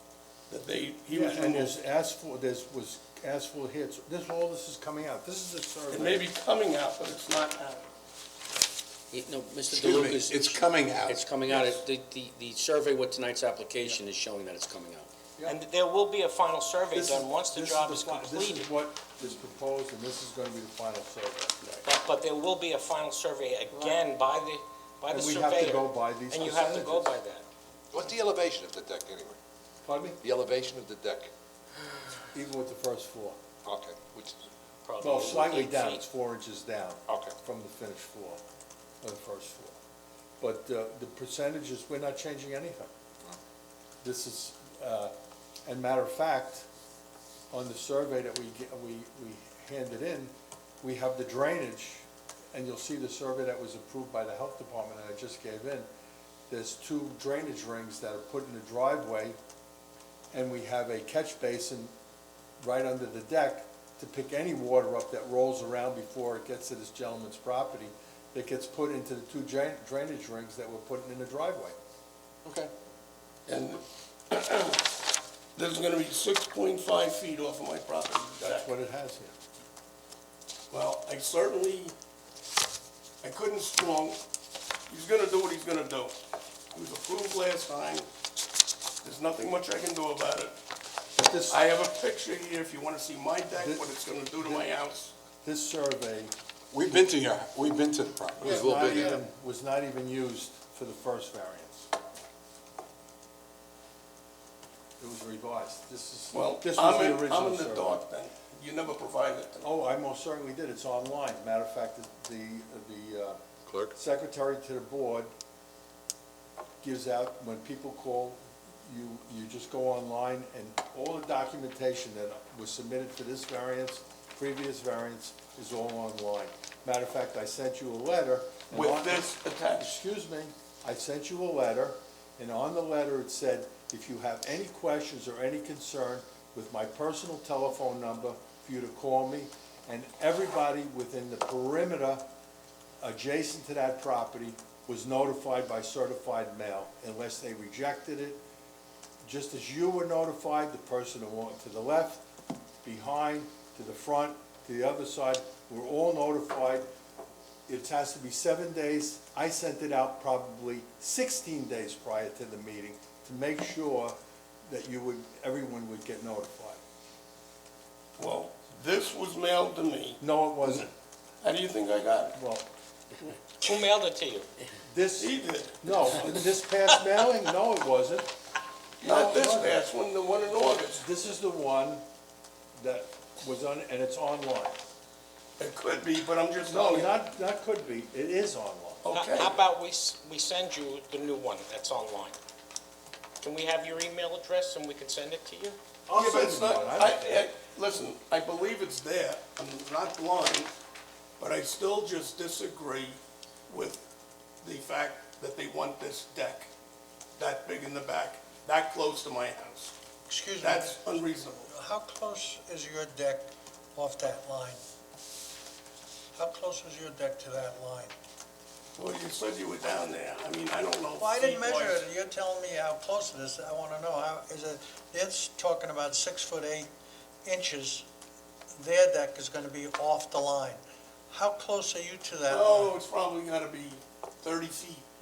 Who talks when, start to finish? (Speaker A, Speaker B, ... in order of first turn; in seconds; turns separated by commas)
Speaker A: 0.5-1.8, Speaker B: 1.1-6.3, Speaker A: 5.9-7.9, Speaker C: 9.1-15.1, Speaker D: 9.7-11.2, Speaker A: 11.5-11.8, Speaker E: 15.5-18.7, Speaker B: 16.9-21.6, Speaker E: 21.8-27.5, Speaker B: 25.1-27.1, Speaker D: 27.9-29.4, Speaker B: 29.8-30.2, Speaker D: 30.2-31.3, Speaker B: 32.3-33.4, Speaker D: 33.6-34.4, Speaker E: 34.9-36.0, Speaker B: 35.0-38.4, Speaker D: 37.1-37.4, Speaker B: 39.0-39.8, Speaker B: 40.4-42.9, Speaker B: 44.0-45.1, Speaker B: 45.7-46.7, Speaker B: 47.5-55.9, Speaker B: 56.5-59.4, Speaker B: 60.3-61.9, Speaker B: 62.6-71.8, Speaker A: 73.5-75.0, Speaker A: 75.6-78.7, Speaker B: 78.4-79.3, Speaker A: 80.7-81.9, Speaker A: 83.2-84.2, Speaker A: 84.9-86.2, Speaker A: 86.7-88.1, Speaker A: 89.0-90.5, Speaker B: 91.2-91.6, Speaker A: 91.5-95.1, Speaker B: 93.5-93.9, Speaker B: 94.4-94.7, Speaker B: 95.4-96.3, Speaker D: 96.7-99.2, Speaker B: 98.4-101.9, Speaker C: 98.5-99.2, Speaker B: 105.0-108.0, Speaker A: 106.3-109.6, Speaker B: 109.6-113.4, Speaker D: 113.7-113.9, Speaker B: 113.9-115.3, Speaker B: 116.8-142.2, Speaker A: 128.7-130.0, Speaker B: 143.0-148.4, Speaker B: 149.2-152.2, Speaker B: 152.8-156.9, Speaker B: 157.7-164.2, Speaker B: 164.7-166.8, Speaker A: 168.2-170.9, Speaker B: 170.2-170.9, Speaker A: 171.4-172.4, Speaker B: 172.3-173.3, Speaker E: 173.6-174.5, Speaker B: 174.9-178.3, Speaker A: 175.2-176.4, Speaker A: 179.0-181.0, Speaker B: 179.0-179.8, Speaker B: 180.9-182.0, Speaker B: 182.8-184.8, Speaker A: 185.6-187.1, Speaker B: 186.6-189.0, Speaker A: 189.0-189.6, Speaker E: 189.1-192.4, Speaker E: 193.4-195.8, Speaker B: 196.1-197.4, Speaker A: 196.1-200.7, Speaker A: 201.4-204.0, Speaker A: 204.6-206.7, Speaker A: 207.4-209.9, Speaker F: 210.3-211.0, Speaker A: 210.6-211.7, Speaker F: 211.7-214.8, Speaker F: 216.3-218.1, Speaker A: 219.0-222.1, Speaker F: 221.2-226.9, Speaker F: 227.4-228.1, Speaker F: 228.7-233.0, Speaker A: 232.5-235.1